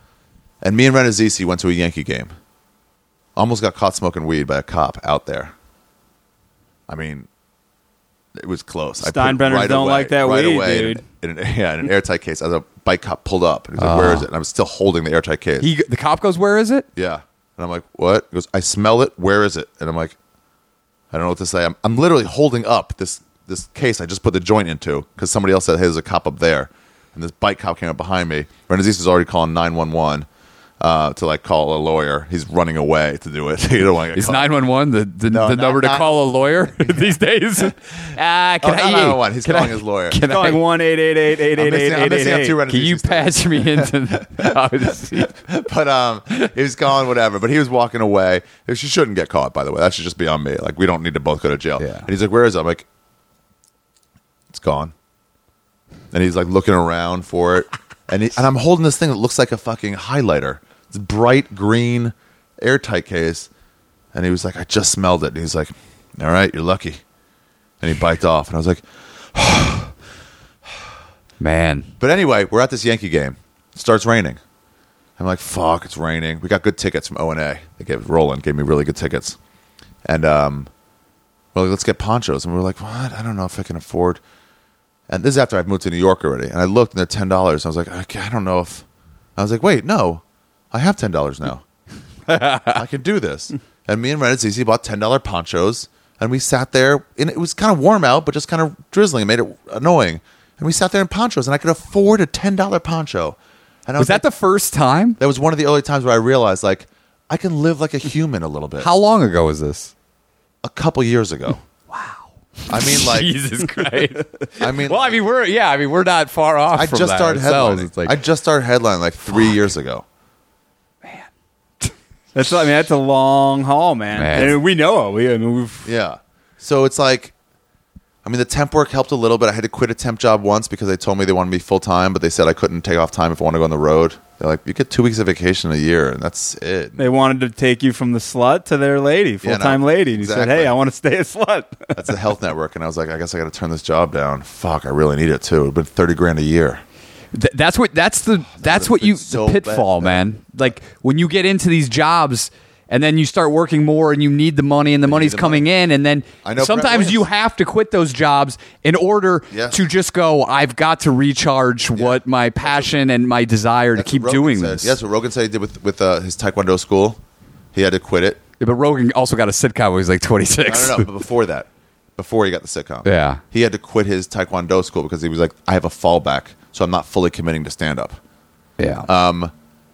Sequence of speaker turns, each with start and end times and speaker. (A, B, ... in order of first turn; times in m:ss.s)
0:00.6-0:02.3 A
0:03.4-0:05.5 A
0:06.9-0:07.3 A
0:08.4-0:15.7 A
0:09.0-0:11.0 B
0:13.8-0:14.3 C
0:15.6-0:16.9 C
0:17.0-0:20.2 A
0:21.1-0:30.3 A
0:30.8-0:34.5 A
0:34.1-0:40.6 C
0:35.3-0:36.2 A
0:36.8-0:37.1 A
0:38.6-0:40.2 A
0:40.3-0:42.6 B
0:41.6-0:44.5 A
0:42.7-0:45.4 C
0:45.2-0:52.8 A
0:51.8-0:52.1 C
0:54.5-0:54.9 A
0:56.1-1:03.5 A
1:04.1-1:07.0 A
1:07.8-1:09.9 A
1:11.4-1:11.9 C
1:12.0-1:14.4 A
1:15.2-1:19.4 A
1:20.0-1:20.7 A
1:21.5-1:24.2 A
1:25.1-1:28.8 A
1:29.4-1:31.6 A
1:32.3-1:32.8 C
1:32.7-1:44.2 A
1:44.0-1:45.2 C
1:45.2-1:48.9 A
1:48.8-1:49.9 C
1:50.6-1:51.6 A
1:51.9-1:58.2 C
1:52.7-1:53.3 A
1:54.6-1:55.2 A
1:56.7-2:00.0 A
2:02.3-2:05.8 B
2:04.1-2:04.6 C
2:05.8-2:07.3 A
2:08.2-2:17.0 A
2:17.0-2:22.0 B
2:19.4-2:20.7 A
2:21.9-2:26.8 A
2:27.3-2:45.0 C
2:28.5-2:30.7 A
2:35.0-2:35.6 A
2:36.4-2:37.3 A
2:39.5-2:39.8 A
2:41.9-2:42.9 A
2:44.0-2:47.2 A
2:47.7-2:48.4 A
2:48.6-2:51.1 C
2:50.6-2:58.2 A
2:53.0-2:53.4 C
2:58.8-2:59.1 C
2:59.0-2:59.5 A